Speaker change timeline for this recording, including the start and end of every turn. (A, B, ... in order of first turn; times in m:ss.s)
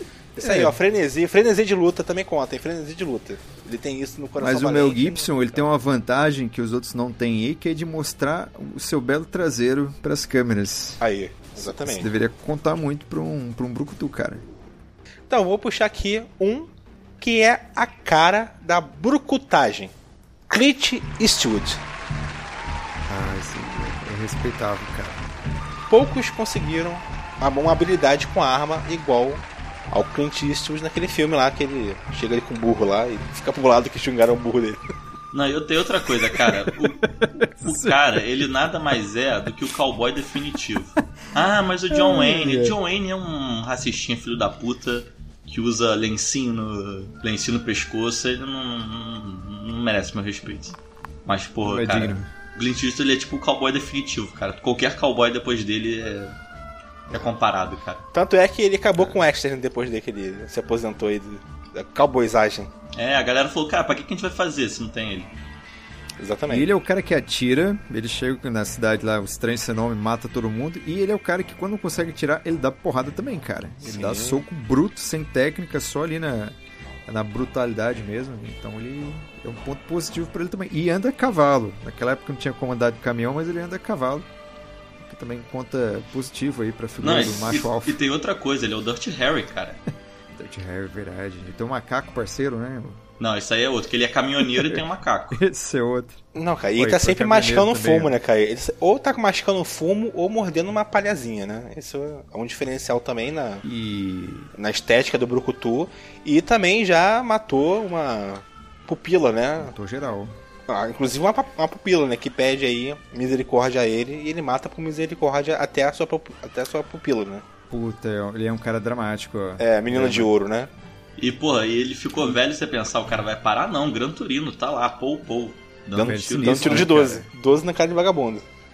0:00.4-0:00.7 A
0:00.4-0:05.6 B
0:04.4-0:11.0 A
0:11.0-0:12.1 B
0:11.6-0:14.4 A
0:15.3-0:19.9 B
0:20.5-0:21.8 B
0:23.0-0:25.2 A
0:25.9-0:34.8 B
0:35.3-0:56.3 C
0:36.4-0:38.2 A
0:41.9-0:42.8 A
0:51.6-0:52.3 A
0:57.1-0:58.0 C
0:58.1-1:02.7 B
1:02.9-1:05.3 C
1:06.2-1:06.7 B
1:06.5-1:24.3 A
1:13.8-1:14.4 B
1:25.0-1:28.0 A
1:27.0-1:29.8 C
1:30.3-1:33.0 A
1:33.2-1:35.4 C
1:34.4-1:38.1 A
1:36.3-1:43.6 B
1:43.6-1:44.5 A
1:44.6-1:49.7 B
1:49.6-1:50.4 A
1:50.7-1:57.4 B
1:57.7-2:00.3 A
1:59.6-2:00.7 B
2:01.2-2:07.2 C
2:05.9-2:08.4 B
2:06.0-2:07.2 A